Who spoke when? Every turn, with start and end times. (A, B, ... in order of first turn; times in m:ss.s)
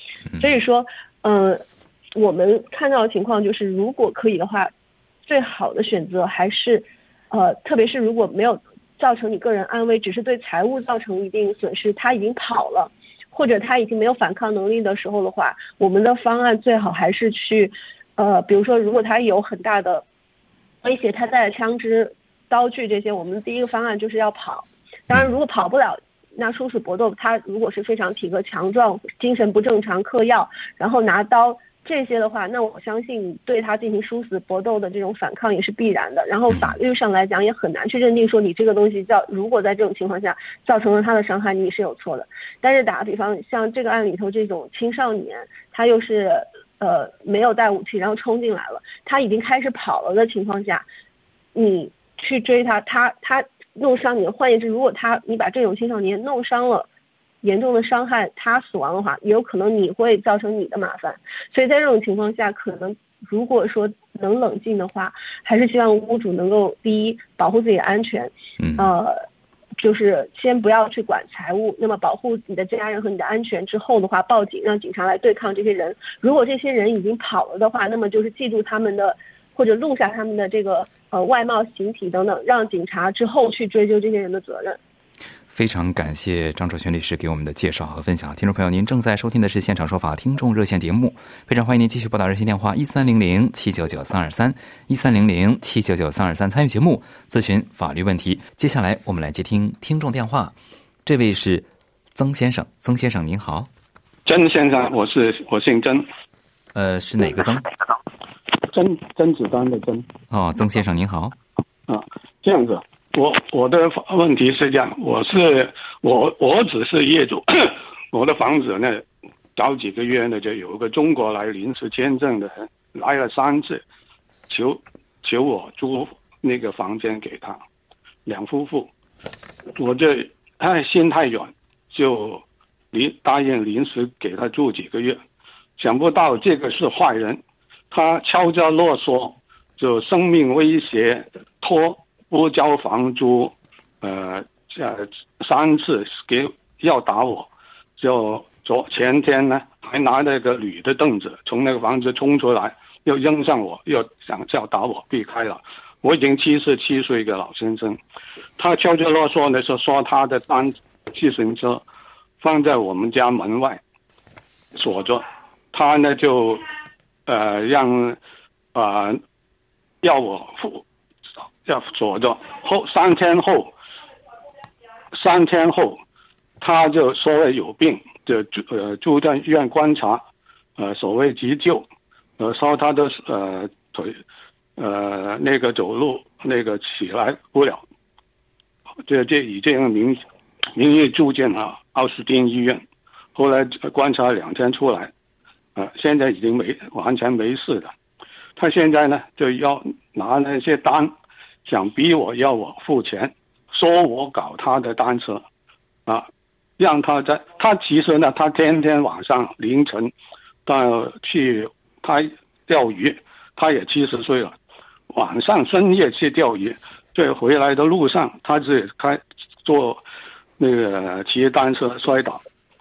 0:00.4-0:01.6 A
0:02.2-0:04.7 A
0:05.3-0:20.0 A
0:20.8-0:50.8 A
0:51.6-0:56.9 A
0:57.4-1:09.2 A
1:08.6-1:08.9 B
1:09.8-1:24.8 A
1:25.5-1:43.7 B
1:44.3-1:46.1 C
1:46.7-1:47.7 B
1:48.7-1:50.1 C
1:50.3-1:51.4 B
1:51.9-1:59.0 C
1:59.6-2:03.8 C
2:04.5-2:07.6 C
2:08.3-2:08.9 C
2:09.8-2:15.2 C
2:15.8-2:17.4 C
2:17.9-2:38.0 C
2:38.6-2:41.8 C
2:42.4-2:43.8 C
2:44.8-2:46.7 C
2:47.3-2:48.2 C
2:48.7-2:49.2 C
2:50.0-2:50.8 C
2:51.6-2:53.7 C
2:55.1-2:56.0 C
2:56.6-3:00.2 C
3:00.8-3:01.8 C
3:02.4-3:04.2 C
3:04.8-3:07.8 C
3:09.1-3:10.2 C
3:10.7-3:12.8 C
3:13.4-3:15.1 C
3:15.8-3:17.9 C
3:18.6-3:21.1 C
3:21.7-3:25.4 C
3:26.8-3:30.1 C
3:30.7-3:34.5 C
3:35.1-3:40.0 C
3:40.6-3:42.4 C